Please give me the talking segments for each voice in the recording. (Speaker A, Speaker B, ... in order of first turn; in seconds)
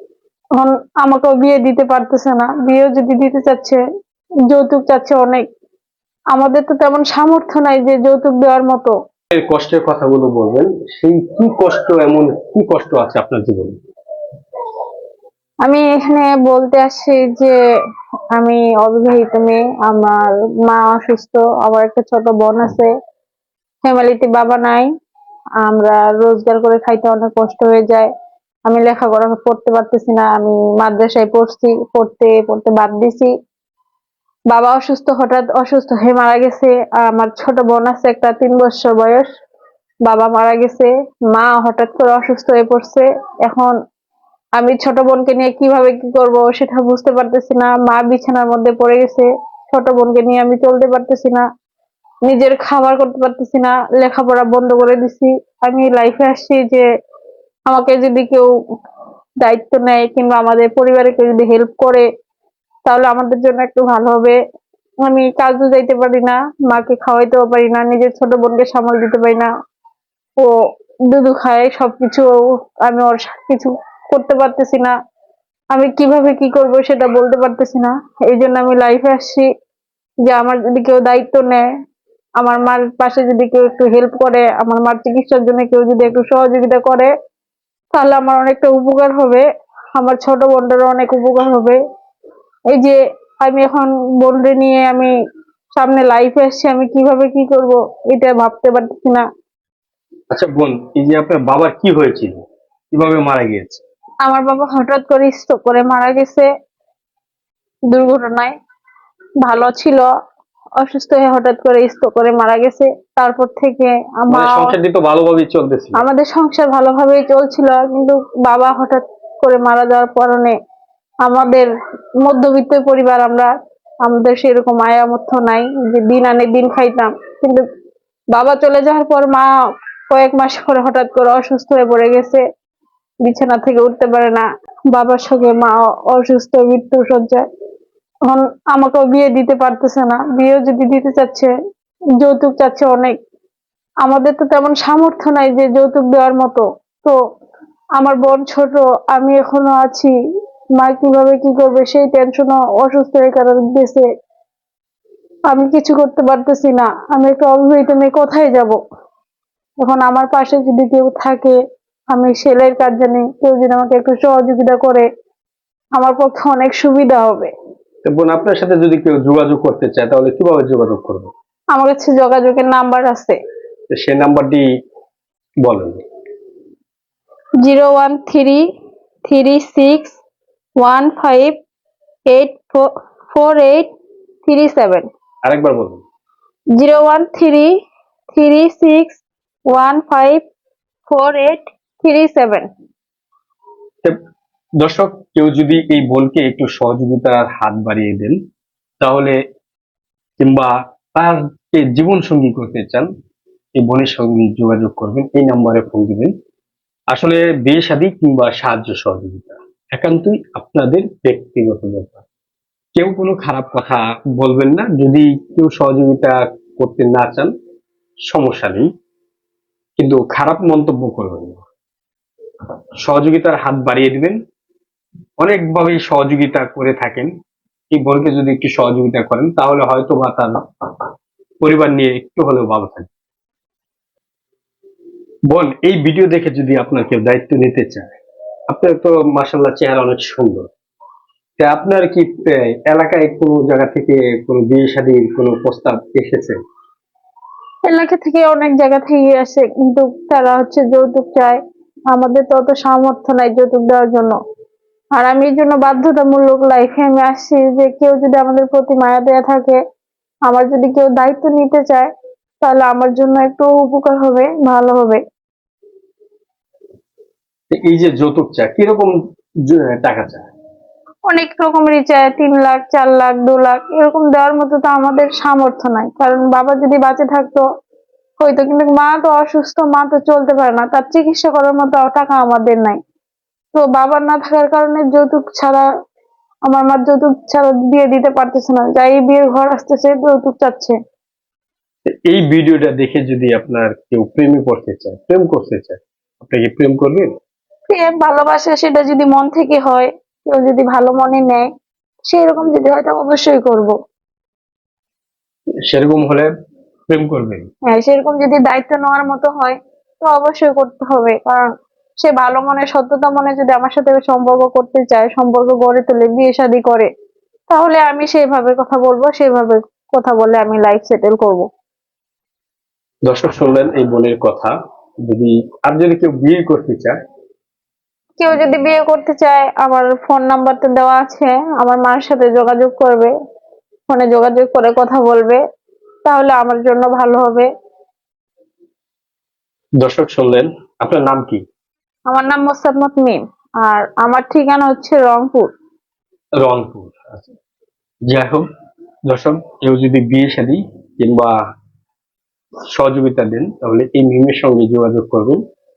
Speaker A: 0.6-3.8, 4.5-5.4, 6.3-8.9, 15.6-17.5, 18.3-22.9, 23.8-24.9, 25.6-28.1, 28.7-33.3, 34.5-39.3, 40.0-43.7, 44.6-51.4, 52.2-56.8, 57.7-58.5, 59.4-62.0, 62.9-64.4, 65.0-69.5, 71.1-72.3, 72.8-74.9, 75.7-79.5, 80.2-81.6, 82.4-87.1, 87.9-91.8, 92.7-95.1, 95.8-99.3, 104.2-106.5, 107.9-108.5, 109.4-110.0, 110.8-114.7, 115.9-120.5, 121.2-121.7, 122.2-123.5, 124.0-127.6, 128.3-129.5, 130.1-132.4, 133.2-137.4, 138.3-141.5, 142.2-143.2, 144.0-147.1, 148.0-150.1, 150.8-154.1, 155.5-158.8, 159.8-161.6, 162.1-165.0, 166.0-167.5, 171.7-173.4, 177.6-178.6, 179.2-180.2, 180.8-181.6, 182.3-183.9, 184.4-185.1, 186.8-187.7, 188.3-190.4, 191.1-192.7, 247.8-251.6, 252.1-254.3, 255.1-259.8, 260.5-262.1, 262.6-265.2, 271.3-277.6, 278.4-283.0, 283.7-285.8, 286.7-290.9, 297.9-301.7, 302.3-303.9, 307.9-311.7, 312.2-317.1, 317.7-321.7, 328.4-333.3, 334.1-335.6, 336.2-337.7, 342.3-345.7
Speaker B: 9.3-13.8, 100.3-103.8, 114.3-116.0, 168.0-171.3, 173.9-174.6, 175.6-176.0, 185.4-186.0, 194.8-198.4, 199.0-199.3, 200.4-203.1, 203.8-206.3, 207.1-212.2, 212.9-217.5, 218.3-218.9, 220.0-221.6, 223.0-224.4, 225.4-227.3, 227.9-230.5, 231.6-233.1, 235.5-238.1, 238.7-240.7, 241.6-246.6, 267.7-269.1, 269.6-270.5, 292.1-297.3, 305.8-306.5, 307.1-307.7, 323.2-324.7, 325.2-327.2, 340.0-341.6, 346.6-347.5, 348.3-348.6, 349.3-351.5, 352.9-355.6